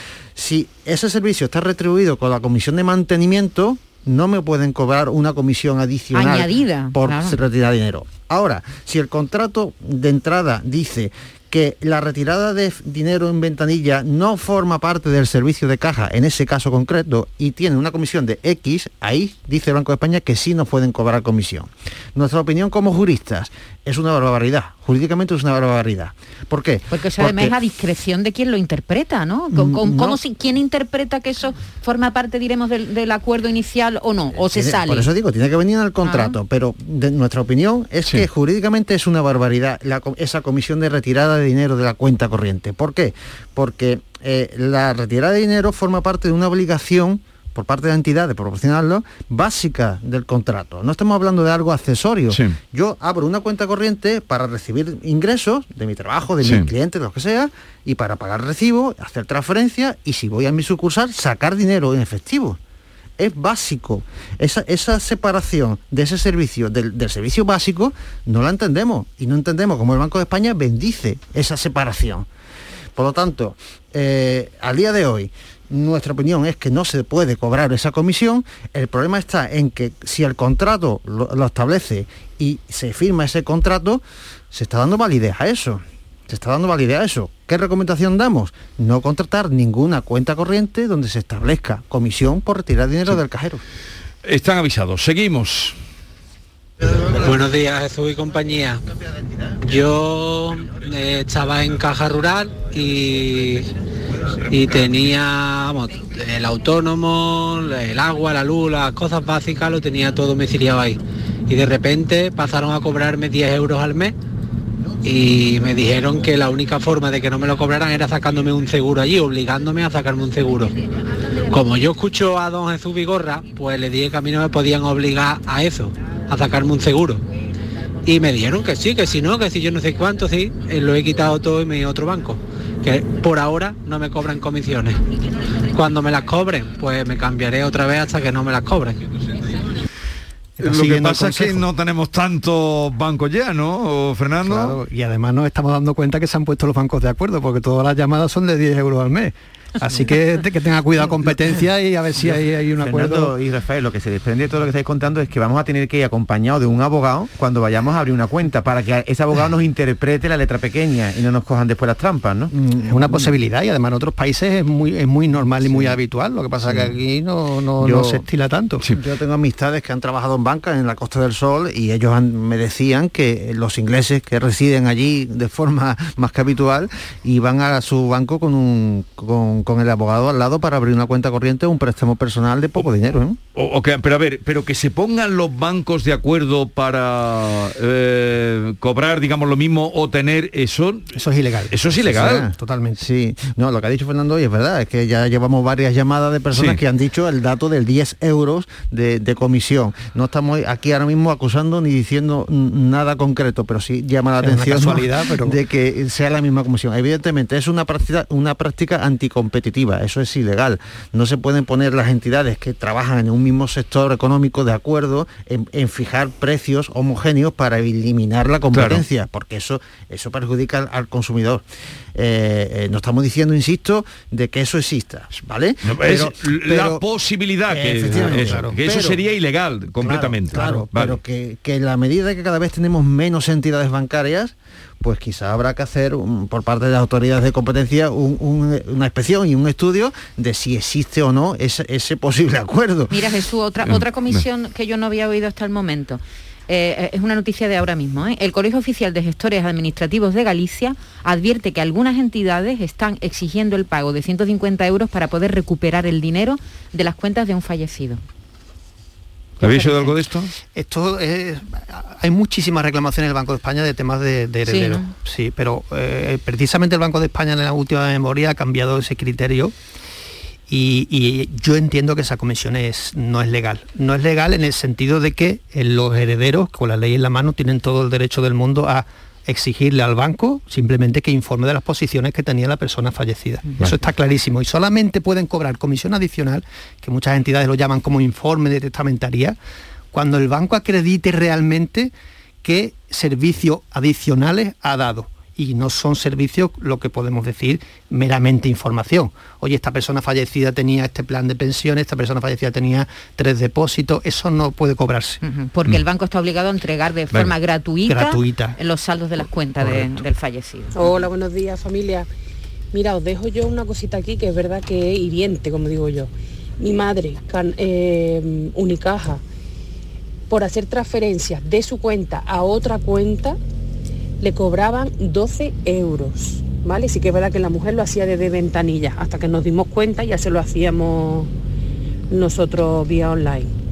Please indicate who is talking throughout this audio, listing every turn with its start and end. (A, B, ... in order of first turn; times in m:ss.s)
0:00.4-0:27.5 A
0:06.1-0:07.4 B
0:26.9-0:35.1 B
0:29.5-0:30.2 A
0:34.4-1:02.6 A
0:36.0-0:36.4 B
0:56.4-0:56.7 C
1:03.2-1:12.3 A
1:12.9-1:33.6 A
1:34.2-1:35.8 C
1:37.0-1:38.8 D
1:39.6-1:43.7 D
1:44.4-1:54.1 D
1:55.0-2:00.7 D
2:01.5-2:07.2 D
2:08.0-2:15.0 D
2:15.7-2:19.0 D
2:20.6-2:21.6 E
2:20.6-2:24.8 C
2:24.4-2:33.3 E
2:32.2-2:42.5 F
2:42.6-2:48.8 E
2:42.9-2:43.3 A
2:45.6-2:46.0 A
2:46.6-2:46.9 A
2:47.8-2:48.2 A
2:48.9-3:03.4 A
3:03.5-3:11.1 C
3:11.1-3:13.0 E
3:11.7-3:12.5 C
3:12.1-3:41.6 A
3:16.5-3:16.8 C
3:24.4-3:25.6 E
3:38.7-3:39.0 C
3:42.1-3:47.0 A
3:45.8-3:51.2 C
3:47.7-3:49.2 A
3:48.1-3:48.8 E
3:50.0-4:03.2 A
3:50.5-3:50.8 E
4:03.1-4:18.2 B
4:03.8-4:04.4 C
4:19.6-4:20.5 C
4:19.6-4:20.1 B
4:20.7-4:29.7 E
4:24.7-4:25.1 B
4:30.7-4:49.6 E
4:50.1-4:52.1 E
4:52.6-5:05.4 E
5:05.4-5:11.2 B
5:08.1-5:08.8 E
5:09.8-5:10.2 E
5:10.9-5:12.3 G
5:12.9-5:19.4 G
5:20.5-5:23.6 G
5:24.4-5:31.5 G
5:32.3-5:33.7 G